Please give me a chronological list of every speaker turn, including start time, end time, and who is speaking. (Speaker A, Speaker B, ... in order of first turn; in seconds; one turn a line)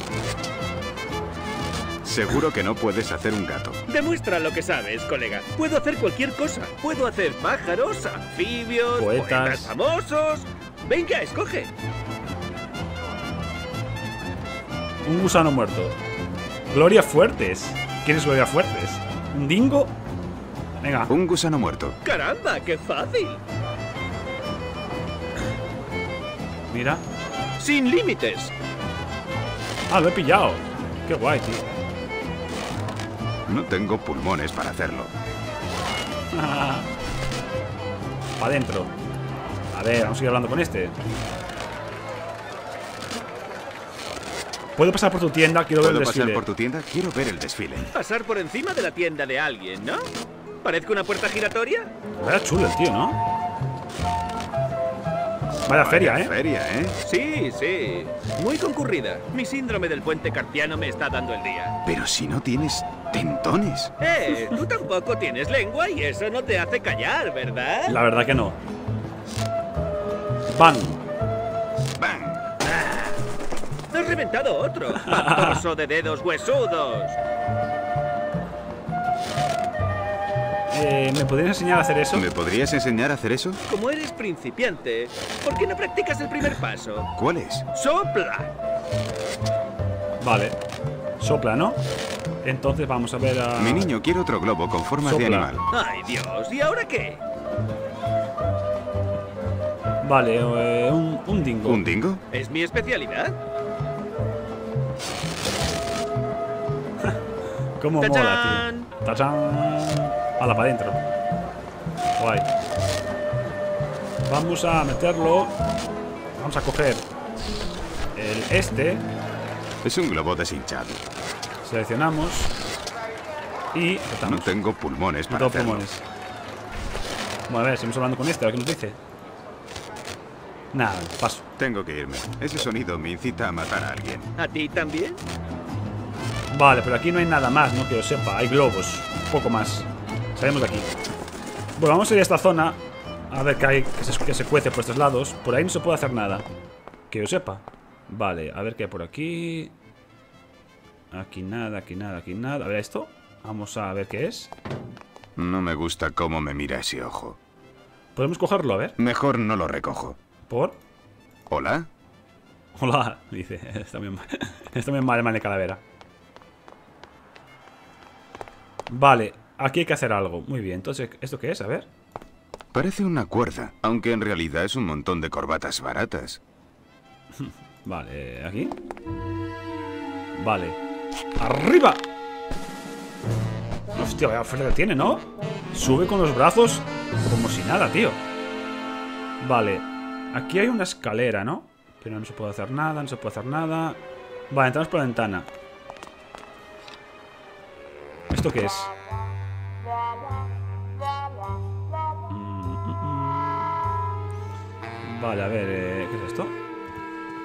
Speaker A: 2.0-3.8
Speaker B: 3.9-11.7
Speaker C: 8.9-9.7
Speaker C: 15.1-16.0
Speaker C: 16.7-19.9
Speaker C: 20.8-21.1
Speaker A: 21.1-22.0
Speaker B: 22.0-23.4
Speaker C: 26.7-27.0
Speaker B: 27.6-28.5
Speaker C: 29.9-31.8
Speaker A: 33.5-35.1
Speaker C: 36.3-36.9
Speaker C: 38.4-38.9
Speaker C: 39.7-41.0
Speaker C: 44.8-46.4
Speaker A: 45.8-47.9
Speaker B: 47.9-50.1
Speaker B: 50.6-51.9
Speaker C: 52.2-53.2
Speaker C: 55.7-56.3
Speaker A: 55.7-57.0
Speaker B: 57.0-61.8
Speaker A: 61.9-63.9
Speaker B: 64.0-68.0
Speaker C: 67.9-68.6
Speaker C: 70.5-71.0
Speaker A: 72.0-72.4
Speaker B: 73.9-77.2
Speaker C: 75.1-75.6
Speaker C: 80.7-82.3
Speaker A: 82.1-83.6
Speaker B: 83.7-87.1
Speaker A: 87.1-87.7
Speaker B: 87.7-88.5
Speaker C: 90.2-90.6
Speaker C: 91.2-91.8
Speaker C: 92.4-93.9
Speaker A: 93.6-95.6
Speaker C: 95.0-95.5
Speaker B: 95.7-97.2
Speaker C: 100.0-101.8
Speaker A: 101.7-102.2
Speaker B: 102.3-103.4
Speaker C: 107.8-111.0
Speaker B: 108.0-108.9
Speaker C: 112.2-112.5
Speaker C: 114.2-115.6
Speaker C: 116.4-117.0
Speaker C: 118.2-119.1
Speaker A: 119.8-121.0
Speaker C: 121.6-122.5
Speaker C: 123.7-124.6
Speaker A: 124.2-125.9
Speaker C: 125.3-126.0
Speaker C: 127.5-129.0
Speaker C: 130.7-131.4
Speaker A: 131.6-134.3
Speaker B: 134.4-135.2
Speaker C: 136.5-140.9
Speaker C: 141.8-142.8
Speaker C: 143.3-146.5
Speaker C: 147.1-149.7
Speaker C: 151.1-154.5
Speaker A: 155.4-157.4
Speaker C: 158.2-159.0
Speaker A: 159.0-160.2
Speaker C: 160.5-160.8
Speaker A: 161.5-161.9
Speaker C: 162.8-165.8
Speaker C: 168.9-171.9
Speaker A: 172.7-176.4
Speaker C: 177.4-178.8
Speaker C: 180.4-180.8
Speaker C: 181.4-182.0
Speaker C: 183.9-188.2
Speaker C: 189.4-195.5
Speaker C: 198.3-198.9
Speaker C: 202.3-203.8
Speaker C: 205.0-206.6